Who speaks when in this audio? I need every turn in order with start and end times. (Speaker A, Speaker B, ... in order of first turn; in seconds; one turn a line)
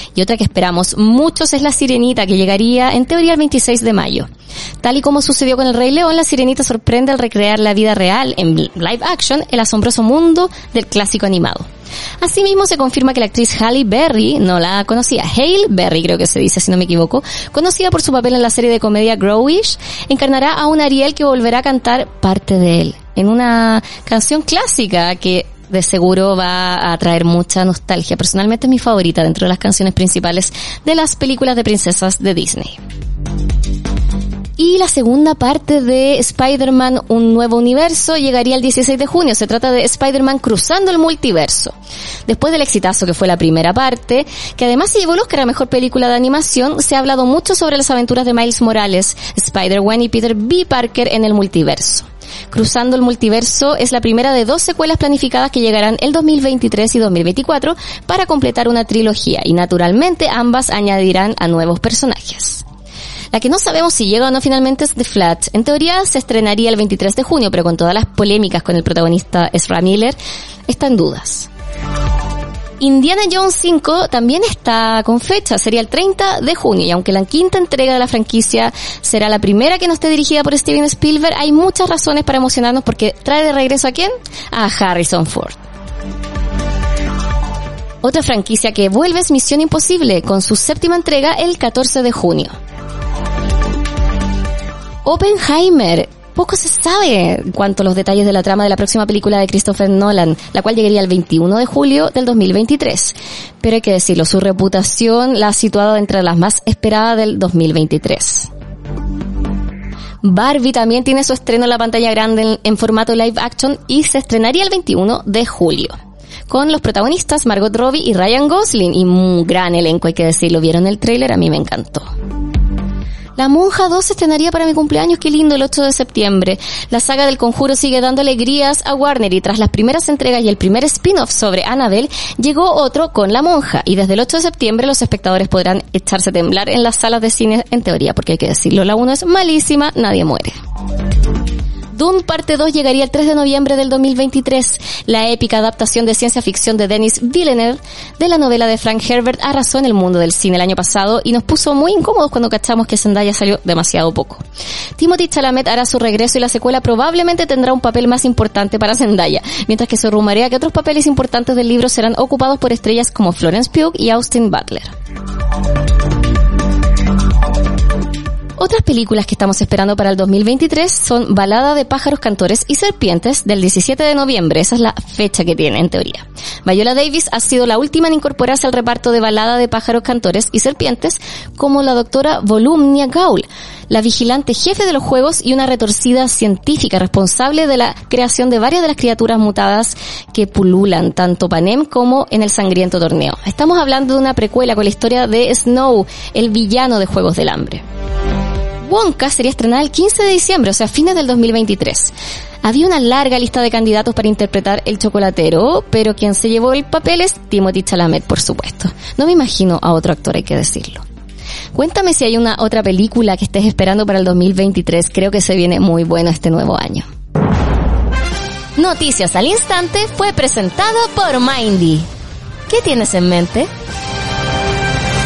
Speaker A: 0.1-4.3
Speaker A: 4.8-11.7
Speaker A: 12.2-32.8
Speaker A: 34.6-41.8
Speaker A: 42.3-62.6
Speaker A: 63.3-70.2
Speaker A: 70.7-71.5
Speaker A: 72.8-85.6
Speaker A: 88.0-92.5
Speaker A: 95.0-108.5
Speaker A: 110.2-116.0
Speaker A: 116.5-122.1
Speaker A: 123.4-140.6
Speaker A: 141.9-154.4
Speaker A: 155.0-164.9
Speaker A: 168.6-197.8
Speaker A: 198.8-211.1
Speaker A: 211.7-217.1
Speaker A: 218.8-222.1
Speaker A: 222.7-223.7